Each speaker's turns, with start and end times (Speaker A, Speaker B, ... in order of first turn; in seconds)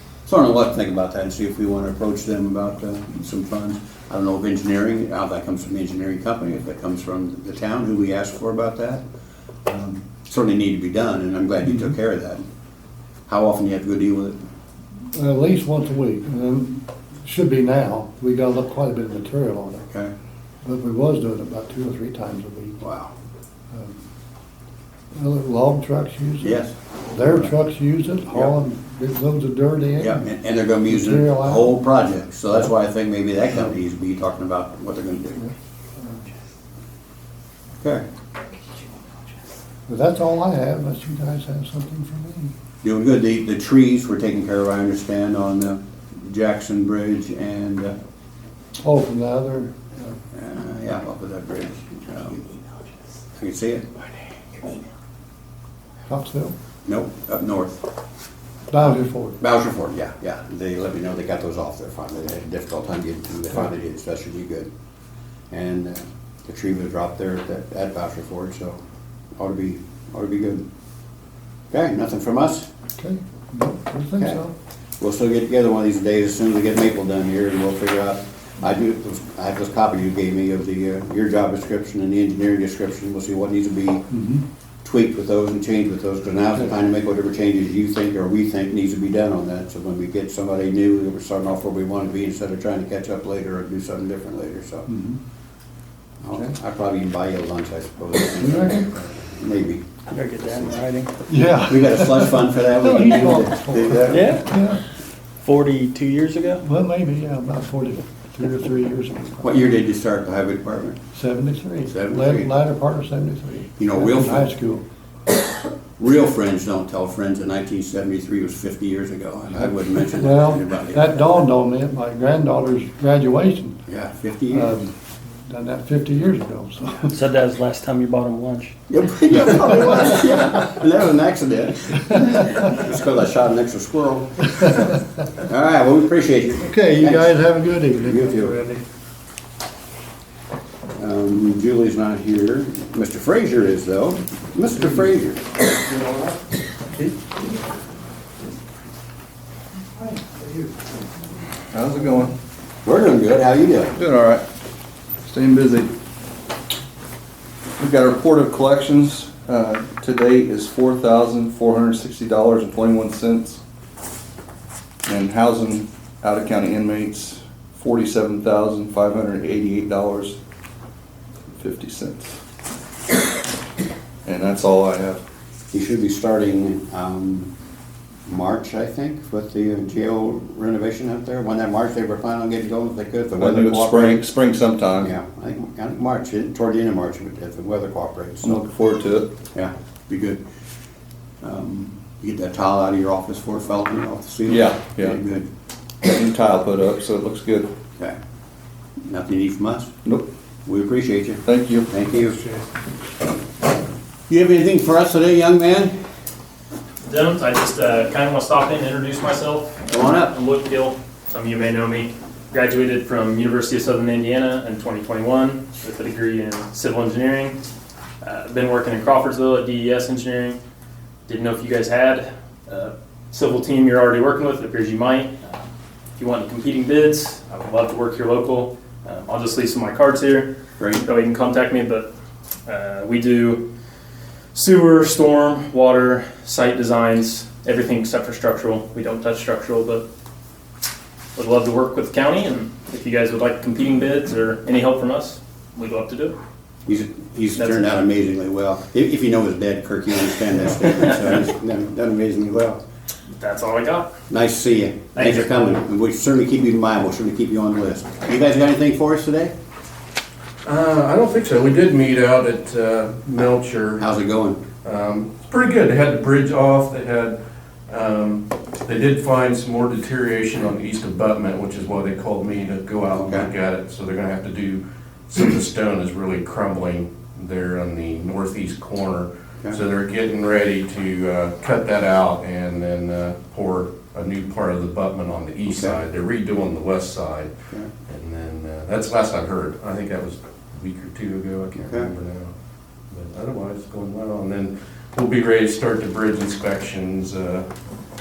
Speaker A: 0.3-9.0, 9.7-12.4, 13.3-14.4, 22.8-23.1, 26.4-26.7, 30.0-35.4, 37.8-38.0, 42.8-48.0, 50.3-52.5, 53.4-53.9, 56.9-57.8, 59.4-64.7, 65.5-68.8, 69.4-70.6, 71.7-72.7, 75.0-84.0, 84.8-94.9, 96.2-99.9, 100.5-100.8, 101.7-104.4, 109.4-111.0, 111.9-112.5, 113.8-114.5, 116.0-121.2, 123.9-124.7, 128.9-134.8, 135.4-137.4, 138.0-138.5, 141.0-145.6, 152.8-154.0, 175.7-177.5, 178.3-184.2, 185.0-188.6, 189.5-190.4, 191.4-195.5, 199.1-199.9, 200.7-202.4, 204.3-205.9, 209.9-210.3, 246.9-252.8, 254.3-259.5, 264.0-264.6, 273.1-273.5, 285.7-286.0, 291.8-292.1
Speaker B: 15.1-19.9, 20.6-22.8, 25.1-26.6, 27.1-30.2, 30.9-31.7, 39.9-42.5, 48.8-50.1, 56.1-56.5, 58.7-59.4, 73.0-74.5, 84.1-84.4, 94.9-95.2, 98.4-98.8, 101.3-104.8, 106.6-109.6, 111.1-114.8, 120.2-123.8, 124.5-124.9, 125.5-127.2, 136.6-138.8
Speaker C: 100.1-101.1, 104.2-104.4, 105.4-106.6, 127.2-128.7
Speaker D: 151.7-152.4, 154.0-154.4, 155.2-155.9, 157.8-163.6, 165.1-170.4, 171.5-172.4, 174.2-175.2, 183.4-185.1, 188.4-189.3, 194.5-195.2, 196.0-197.7, 201.4-201.9
Speaker E: 207.0-217.6, 218.2-220.6, 221.3-225.4, 226.2-232.1, 232.7-233.7, 234.5-240.1, 241.4-246.4, 247.6-247.8, 253.4-254.1, 255.2-255.8
Speaker F: 260.6-264.1, 264.8-267.4, 267.9-287.5, 288.1-292.5, 293.1-297.6